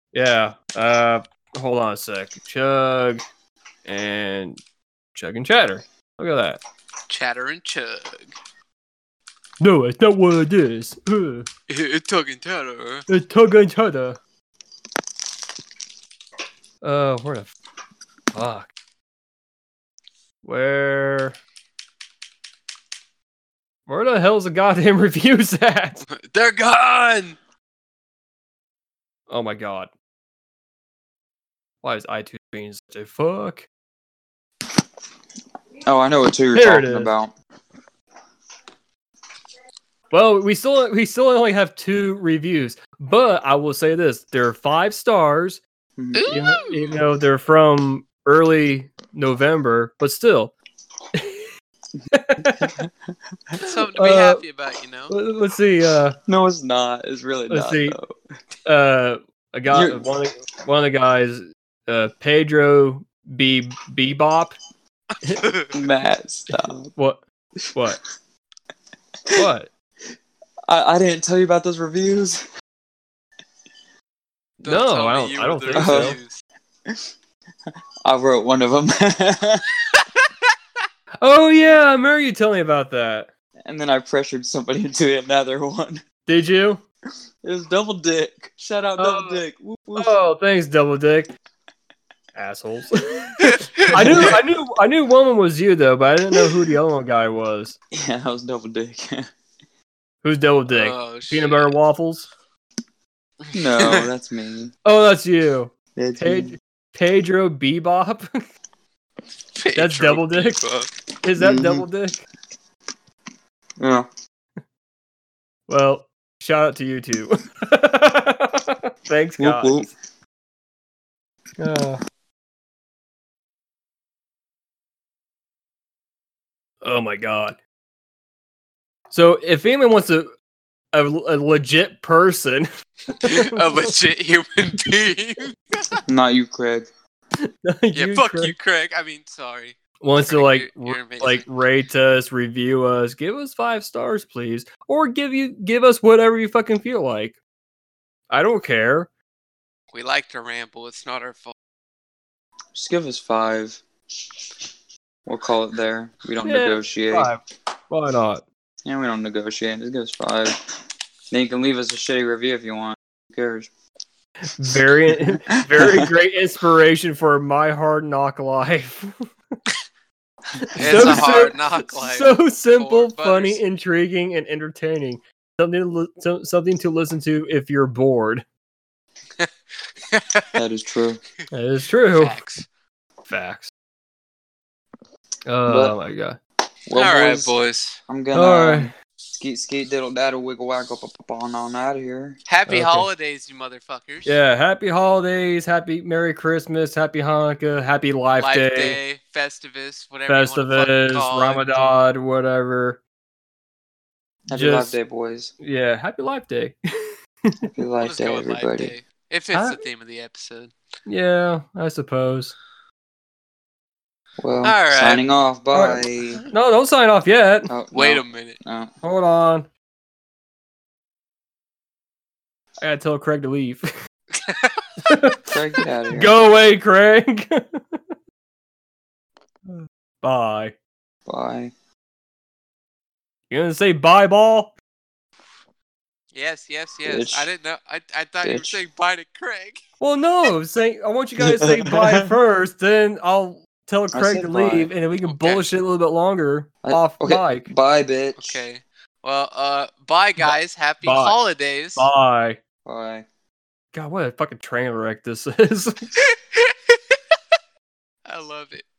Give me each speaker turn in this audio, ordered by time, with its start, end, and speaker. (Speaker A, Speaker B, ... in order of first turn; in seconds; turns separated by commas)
Speaker A: 0.1-3.2, Speaker A: 3.9-4.6, Speaker A: 5.2-6.6, Speaker B: 7.1-8.3, Speaker A: 9.6-11.5, Speaker B: 11.7-13.1, Speaker A: 13.1-14.2, Speaker A: 16.8-17.5, Speaker A: 18.3-18.7, Speaker A: 20.4-21.4, Speaker A: 23.9-26.0, Speaker B: 26.1-27.4, Speaker A: 29.3-29.9, Speaker A: 31.8-33.7, Speaker C: 35.9-37.3, Speaker A: 36.5-37.1, Speaker A: 40.1-45.6, Speaker C: 46.0-46.3, Speaker B: 46.2-47.0, Speaker A: 46.3-50.5, Speaker A: 51.1-51.5, Speaker A: 52.1-52.7, Speaker C: 52.4-52.9, Speaker B: 53.6-55.1, Speaker A: 53.9-54.4, Speaker A: 55.1-56.2, Speaker C: 56.3-58.1, Speaker A: 57.5-58.0, Speaker A: 58.7-64.5, Speaker C: 59.7-60.1, Speaker B: 65.1-65.8, Speaker C: 65.7-66.9, Speaker A: 66.5-67.2, Speaker A: 69.4-69.7, Speaker C: 70.7-72.4, Speaker B: 74.6-76.4, Speaker A: 74.6-76.2, Speaker C: 75.8-76.2, Speaker C: 78.0-79.7, Speaker A: 81.2-83.3, Speaker C: 83.7-86.0, Speaker A: 86.3-86.8, Speaker C: 87.4-90.1, Speaker A: 89.0-89.4, Speaker A: 90.0-91.3, Speaker A: 92.3-97.8, Speaker B: 93.4-94.4, Speaker C: 93.9-94.4, Speaker C: 97.9-99.3, Speaker A: 100.2-102.3, Speaker B: 100.7-101.7, Speaker B: 103.4-104.1, Speaker C: 103.5-104.7, Speaker A: 104.8-108.4, Speaker C: 106.0-106.5, Speaker B: 109.6-110.9, Speaker A: 109.8-110.6, Speaker A: 111.2-112.2, Speaker C: 111.4-111.9, Speaker C: 113.8-114.1, Speaker A: 115.7-119.9, Speaker C: 119.4-119.9, Speaker A: 121.6-122.0, Speaker A: 126.8-127.6, Speaker A: 129.1-130.3, Speaker A: 130.9-134.0, Speaker B: 133.2-136.0, Speaker C: 136.1-136.9, Speaker A: 137.6-138.5, Speaker B: 137.9-141.4, Speaker A: 140.0-147.4, Speaker A: 148.3-149.1, Speaker B: 149.9-151.5, Speaker C: 152.7-153.8, Speaker C: 155.3-157.3, Speaker A: 156.4-158.4, Speaker C: 158.8-160.5, Speaker C: 161.3-163.7, Speaker A: 164.6-169.2, Speaker C: 164.7-166.1, Speaker A: 170.6-178.4, Speaker C: 170.8-171.3, Speaker B: 170.8-173.6, Speaker B: 180.1-180.5, Speaker C: 180.6-181.2, Speaker A: 181.5-182.4, Speaker B: 182.1-182.7, Speaker A: 183.3-183.7, Speaker A: 185.5-186.4, Speaker C: 185.7-186.0, Speaker C: 186.9-187.5, Speaker B: 186.9-188.0, Speaker C: 188.1-192.4, Speaker A: 188.3-188.9, Speaker B: 192.5-194.4, Speaker A: 192.7-193.1, Speaker A: 194.3-199.0, Speaker B: 198.4-201.9, Speaker A: 200.3-203.0, Speaker C: 204.5-205.5, Speaker A: 204.5-205.0, Speaker A: 205.6-206.8, Speaker C: 207.7-208.9, Speaker B: 208.0-210.7, Speaker A: 209.5-209.8, Speaker A: 211.1-212.6, Speaker C: 214.4-216.4, Speaker B: 214.6-215.2, Speaker A: 215.7-217.7, Speaker C: 217.7-218.9, Speaker B: 217.9-218.6, Speaker A: 219.0-219.7, Speaker A: 222.8-223.9, Speaker B: 224.3-224.8, Speaker A: 225.1-225.4, Speaker C: 225.5-226.4, Speaker A: 226.1-228.2, Speaker A: 229.7-230.8, Speaker C: 231.3-231.7, Speaker A: 233.5-234.8, Speaker B: 236.3-239.8, Speaker C: 237.1-237.5, Speaker C: 238.4-238.8, Speaker A: 240.0-247.7, Speaker C: 241.4-242.3, Speaker C: 244.1-244.9, Speaker B: 245.2-245.7, Speaker C: 246.8-248.6, Speaker B: 248.4-252.1, Speaker A: 250.4-251.4, Speaker A: 252.0-252.6, Speaker C: 252.9-253.3, Speaker A: 253.9-255.9, Speaker B: 256.2-257.4, Speaker B: 258.3-258.9